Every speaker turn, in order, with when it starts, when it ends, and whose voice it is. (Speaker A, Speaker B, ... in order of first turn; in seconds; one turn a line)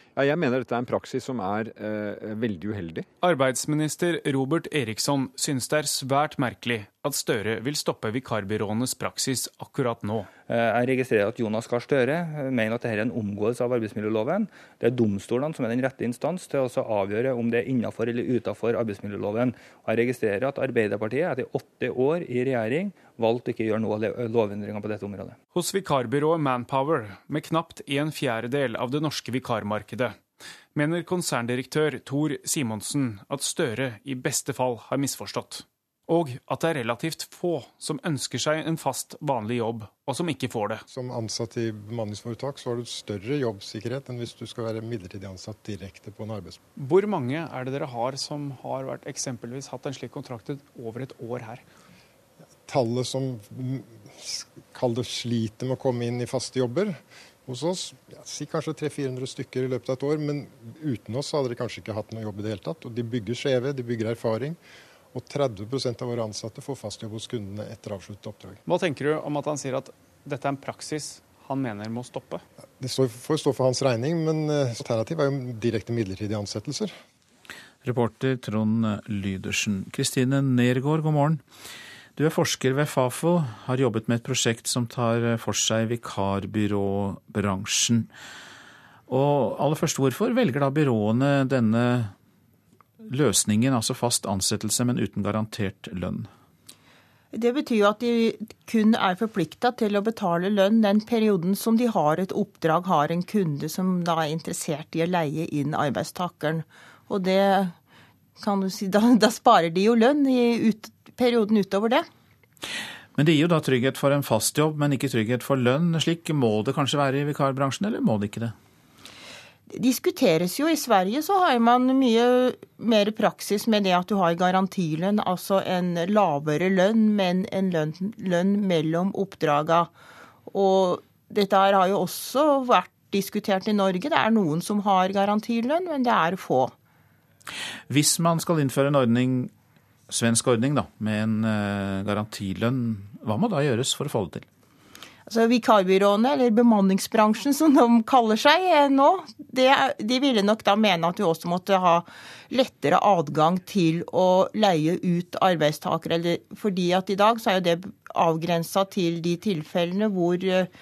Speaker A: 0.2-3.1
Speaker B: 3.2-10.3
Speaker C: 10.5-25.4
Speaker B: 25.5-30.2
Speaker B: 30.7-40.8
Speaker D: 40.9-46.6
Speaker B: 46.8-51.6
Speaker D: 52.6-64.6
Speaker D: 65.1-68.6
Speaker B: 68.7-72.4
Speaker D: 72.8-77.0
Speaker E: 77.8-81.4
Speaker E: 82.2-88.1
Speaker E: 89.1-92.1
Speaker E: 93.1-96.3
Speaker F: 97.3-107.7
Speaker F: 108.4-112.1
Speaker E: 113.2-118.5
Speaker F: 119.7-129.9
Speaker F: 130.5-136.7
Speaker E: 137.9-139.5
Speaker E: 140.1-144.5
Speaker F: 145.3-160.7